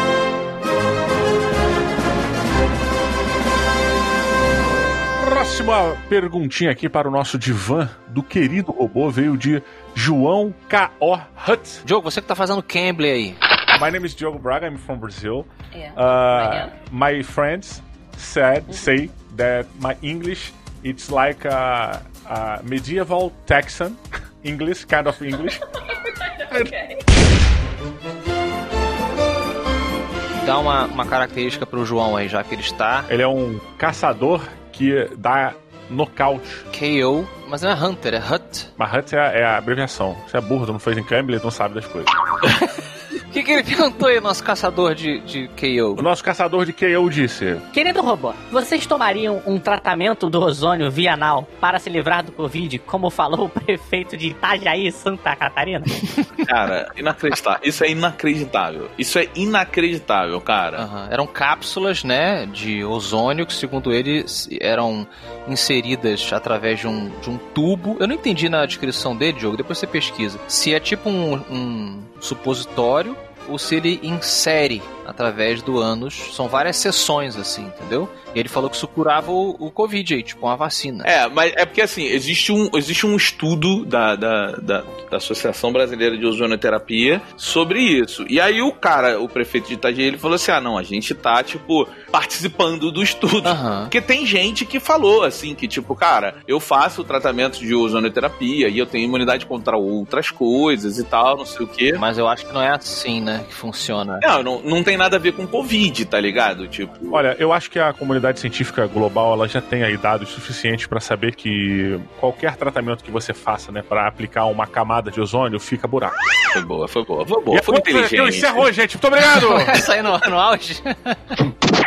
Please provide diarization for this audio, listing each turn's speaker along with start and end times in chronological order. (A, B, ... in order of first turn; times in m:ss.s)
0:05.2-0:11.8 A
0:11.8-0:13.4 B
0:13.7-0:25.7 A
0:26.4-0:26.9 A
0:30.4-0:33.1 B
0:33.1-0:36.6 A
0:36.7-0:38.7 B
0:38.8-0:42.1 A
0:43.3-0:46.0 B
0:46.0-0:47.7 A
0:47.7-0:56.0 C
0:56.4-1:00.8 D
1:00.8-1:21.1 B
1:21.0-1:42.0 D
1:33.4-1:33.9 B
1:41.9-1:44.2 B
1:44.2-1:47.2 D
1:47.1-1:56.3 A
1:56.5-1:58.7 D
1:57.5-1:59.8 A
1:59.3-2:01.4 B